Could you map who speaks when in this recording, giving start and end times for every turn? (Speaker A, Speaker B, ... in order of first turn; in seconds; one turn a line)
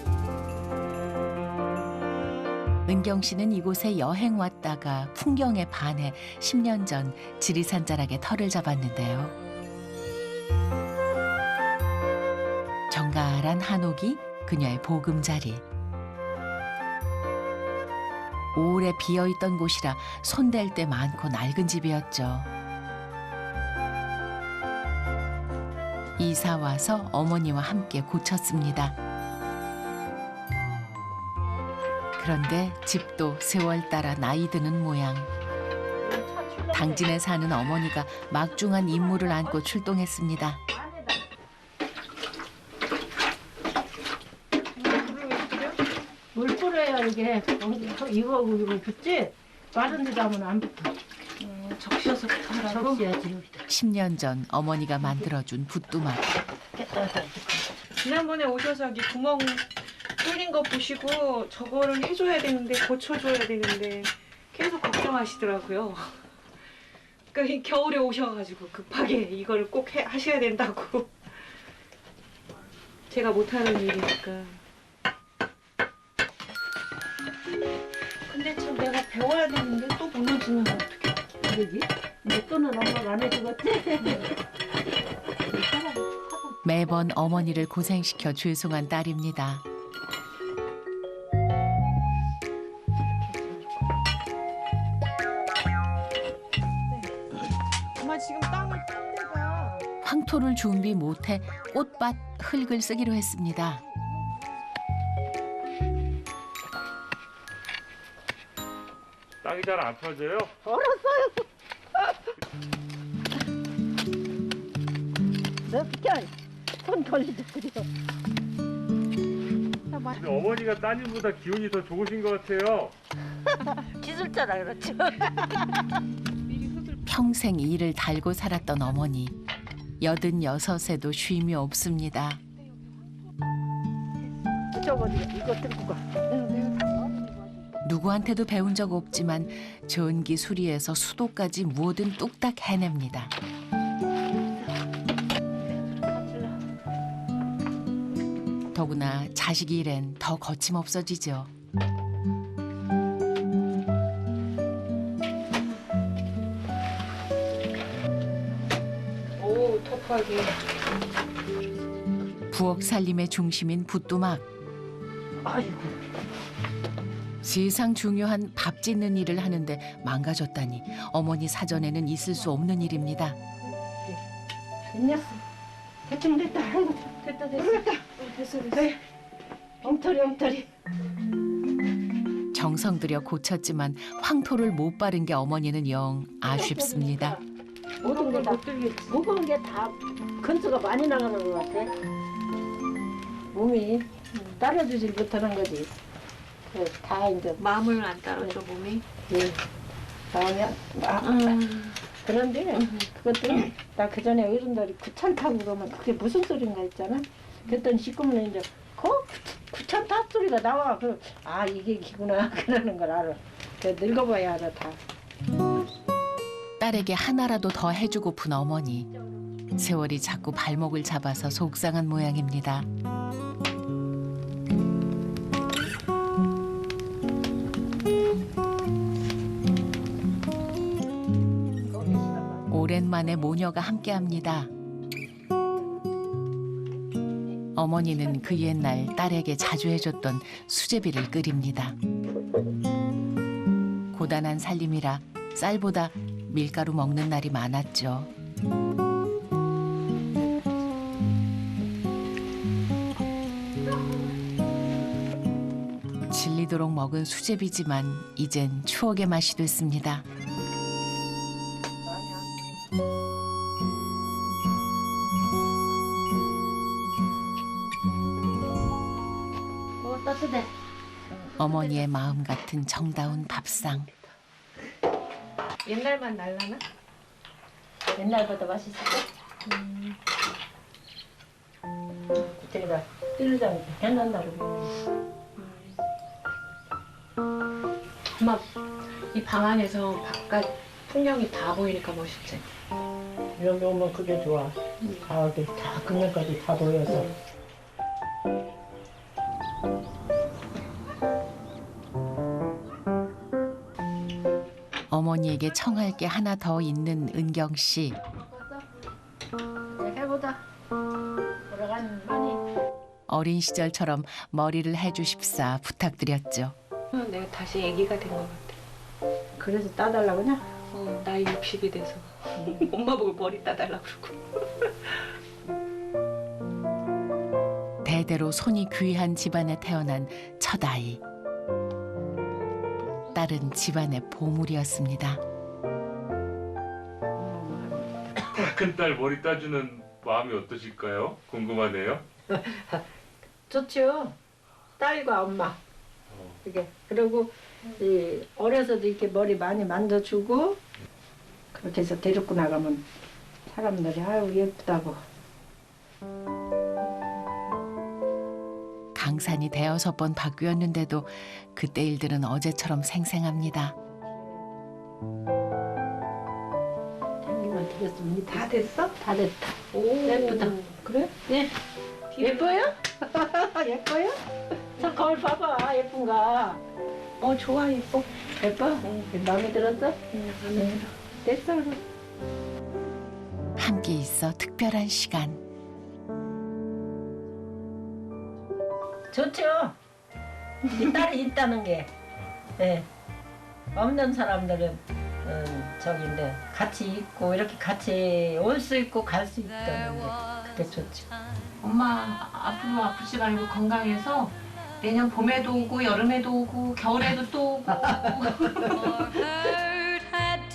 Speaker A: 2.9-9.3
Speaker A: 12.9-15.6
Speaker A: 18.6-22.5
Speaker A: 26.2-29.0
Speaker A: 32.2-35.3
Speaker B: 36.0-37.2
Speaker A: 36.7-40.6
Speaker B: 38.8-39.9
Speaker B: 40.7-41.2
Speaker C: 44.8-45.8
Speaker B: 46.3-50.9
Speaker C: 51.4-53.0
Speaker B: 52.6-53.7
Speaker A: 53.7-56.2
Speaker B: 56.8-57.5
Speaker C: 58.0-66.2
Speaker C: 67.3-71.1
Speaker C: 73.1-74.6
Speaker C: 78.3-81.3
Speaker B: 81.4-84.3
Speaker C: 85.5-86.5
Speaker A: 86.6-89.6
Speaker C: 93.2-93.6
Speaker C: 98.0-99.8
Speaker A: 100.0-103.8
Speaker D: 109.4-110.5
Speaker B: 110.6-111.5
Speaker B: 115.7-117.9
Speaker B: 119.9-120.2
Speaker D: 120.2-122.9
Speaker B: 123.6-125.8
Speaker A: 127.1-129.4
Speaker A: 130.0-132.4
Speaker B: 134.7-137.3
Speaker A: 137.8-143.3
Speaker A: 148.7-151.5
Speaker C: 159.4-160.5
Speaker A: 162.5-164.4
Speaker B: 165.4-165.9
Speaker A: 167.4-173.4
Speaker B: 174.9-175.4
Speaker B: 176.1-178.1
Speaker C: 177.2-178.9
Speaker B: 178.7-179.0
Speaker B: 179.8-180.7
Speaker C: 179.8-180.4
Speaker A: 182.5-187.4
Speaker B: 186.5-187.4
Speaker B: 188.0-191.9
Speaker C: 188.0-189.2
Speaker B: 193.5-195.9
Speaker C: 194.3-194.6
Speaker B: 196.7-197.6
Speaker C: 197.6-199.0
Speaker B: 199.3-199.6
Speaker B: 200.3-201.6
Speaker C: 201.2-202.0
Speaker B: 202.1-215.0
Speaker C: 202.8-203.1
Speaker A: 216.8-219.1
Speaker A: 219.8-222.9
Speaker B: 231.9-232.7
Speaker A: 232.7-234.7
Speaker A: 237.8-242.0
Speaker A: 244.1-248.3
Speaker A: 256.3-260.2
Speaker B: 262.1-262.9
Speaker B: 270.0-270.7
Speaker A: 271.6-274.1
Speaker C: 275.9-276.8
Speaker B: 278.1-279.3
Speaker C: 279.7-280.2
Speaker B: 282.4-284.9
Speaker C: 285.6-286.0
Speaker C: 288.4-288.7
Speaker C: 289.3-292.6
Speaker B: 293.6-297.3
Speaker C: 295.0-295.3
Speaker A: 305.1-308.2
Speaker B: 308.2-308.9
Speaker B: 309.9-310.6
Speaker B: 311.7-312.6
Speaker A: 313.3-316.8
Speaker C: 317.1-318.8
Speaker B: 319.6-320.6
Speaker C: 320.9-324.9
Speaker A: 328.0-331.2
Speaker A: 333.3-335.4
Speaker B: 337.4-338.2
Speaker D: 338.6-342.2
Speaker B: 342.5-343.0
Speaker B: 343.7-344.4
Speaker B: 345.0-345.8
Speaker B: 346.6-350.8
Speaker B: 351.7-353.1
Speaker B: 353.7-355.2
Speaker A: 359.1-363.9
Speaker B: 364.1-364.6
Speaker B: 367.4-371.7
Speaker C: 368.5-369.1
Speaker C: 369.9-370.9
Speaker C: 372.3-372.9
Speaker B: 372.4-374.4
Speaker B: 374.9-376.8
Speaker C: 377.4-378.3
Speaker B: 378.5-382.0
Speaker C: 380.3-381.1
Speaker A: 383.8-385.6
Speaker B: 389.3-390.0
Speaker B: 390.9-392.1
Speaker B: 392.8-393.1
Speaker B: 393.9-401.3
Speaker C: 401.8-409.4